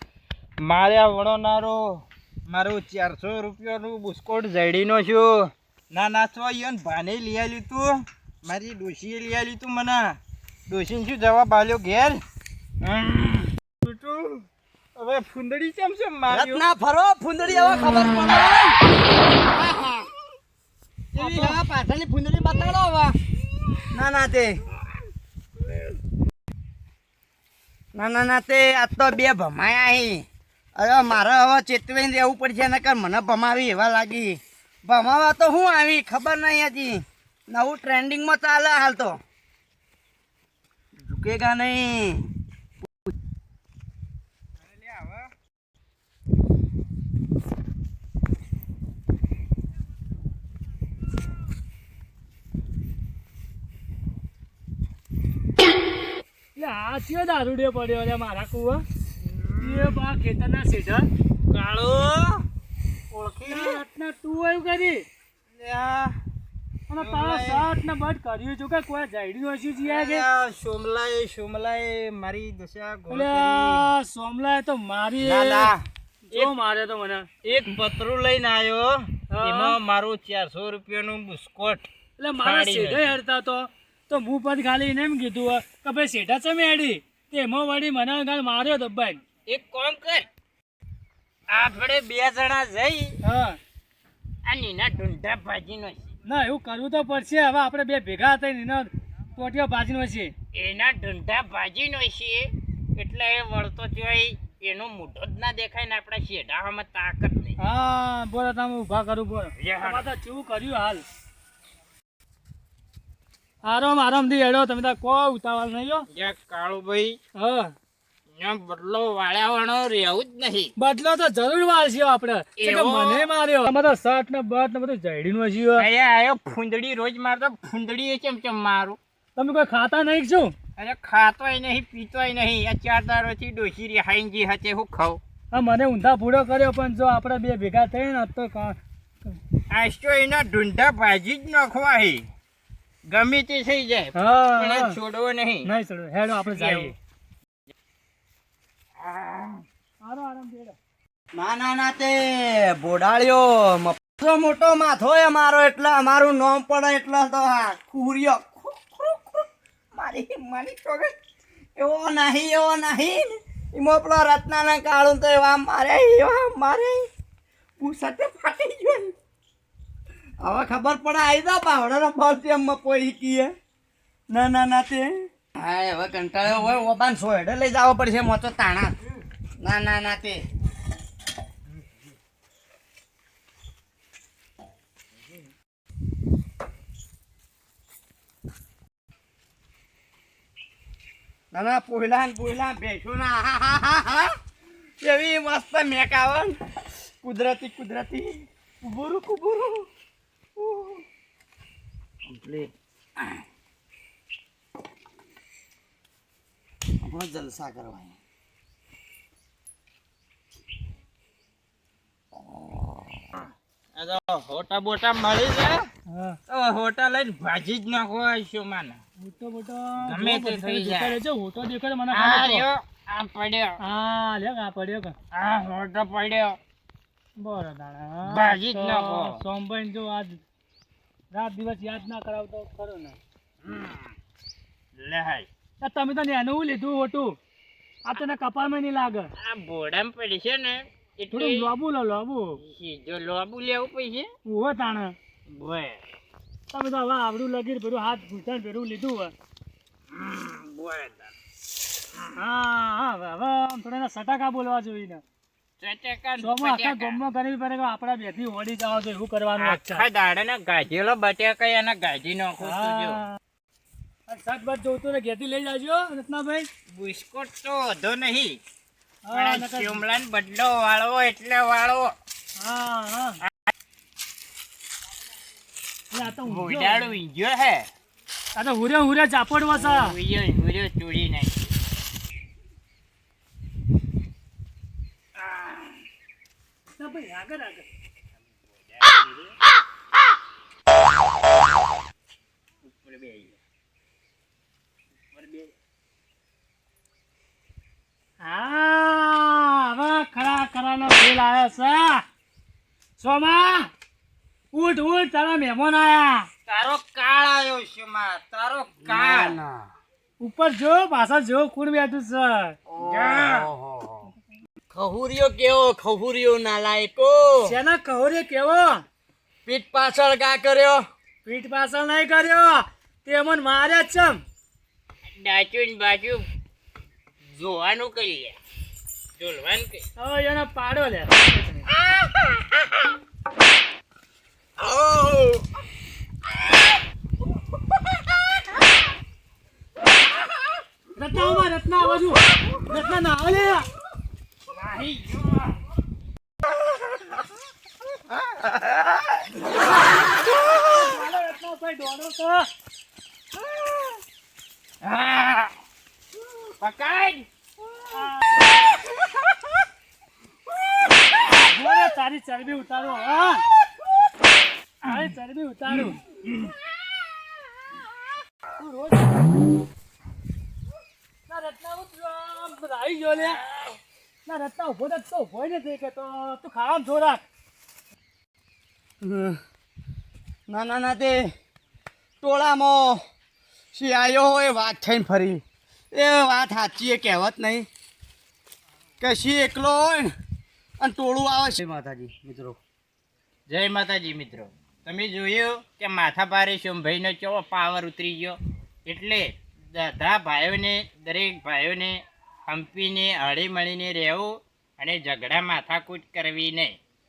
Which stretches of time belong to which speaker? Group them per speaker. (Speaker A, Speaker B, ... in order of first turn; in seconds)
Speaker A: 0.6-10.2, 10.7-12.2, 12.8-14.4, 14.9-16.6, 21.1-21.6, 44.6-45.3, 59.2-60.0, 61.5-62.4, 63.1-63.8, 65.5-66.2, 67.0-67.7, 69.8-73.9, 75.2-76.5, 77.4-81.9, 82.4-83.2, 89.5-90.3, 91.5-93.2, 94.4-96.1, 100.5-107.6, 109.6-110.1, 116.1-117.2, 118.4-120.7, 122.6-123.3, 125.8-129.0, 130.8-135.2, 139.7-142.2, 143.1-145.7, 146.4-146.9, 149.0-149.6, 213.9-215.8, 216.5-219.0, 220.0-221.2, 222.1-223.8, 225.3-226.6, 228.2-229.4, 233.7-234.0, 235.0-235.5, 239.4-241.7, 242.6-244.3, 245.5-246.0, 250.1-251.3, 255.8-257.2, 259.6-263.2, 266.9-268.6, 269.3-272.1, 276.4-277.9, 279.7-281.7, 285.5-285.9, 288.9-289.5, 292.8-293.6, 295.3-295.7, 306.7-309.6, 313.0-313.7, 325.3-326.5, 327.5-328.6, 329.4-330.0, 332.1-332.6, 334.8-335.6, 344.7-345.8, 348.6-349.0, 355.0-355.7, 356.8-357.5, 393.7-407.0
Speaker B: 16.3-18.8, 19.5-20.1, 21.1-23.1, 23.9-24.6, 27.9-30.2, 30.8-39.1, 41.0-42.2, 151.3-161.1, 161.8-167.1, 167.8-169.1, 170.4-173.5, 174.3-178.9, 179.6-180.4, 191.5-194.3, 195.0-196.6, 197.2-199.9, 200.6-201.0, 202.3-202.7, 207.0-208.1, 212.3-212.9, 309.0-309.9, 312.9-314.3, 314.9-317.7, 319.6-321.0, 379.2-379.6, 380.7-381.5, 382.4-383.2, 383.9-387.9, 389.2-390.3, 391.0-392.8
Speaker C: 56.5-58.8, 59.6-61.1, 63.5-65.0, 66.9-70.2, 73.1-75.7, 76.3-77.3, 79.3-79.8, 82.2-89.2, 93.2-93.6, 96.2-100.3, 107.6-111.0, 113.6-116.0, 117.3-117.7, 120.8-125.9, 129.3-130.6, 135.5-138.8, 144.1-145.0, 145.6-146.9, 150.0-150.8, 216.1-216.4, 219.2-222.6, 223.8-225.1, 227.4-230.4, 231.3-233.2, 235.8-237.4, 238.0-239.3, 241.3-242.6, 244.4-245.1, 246.7-249.3, 252.3-255.2, 256.4-260.0, 262.6-263.4, 264.3-266.7, 269.3-270.0, 272.6-273.4, 276.1-277.1, 278.6-280.1, 286.9-287.9, 298.4-302.2, 303.2-303.9, 304.7-306.5, 310.4-312.8, 317.6-319.0, 321.4-324.4, 330.2-331.9, 341.1-343.9, 350.7-352.7, 358.1-358.5, 361.5-363.6, 365.0-366.2, 368.7-369.5, 371.5-373.6, 374.4-377.4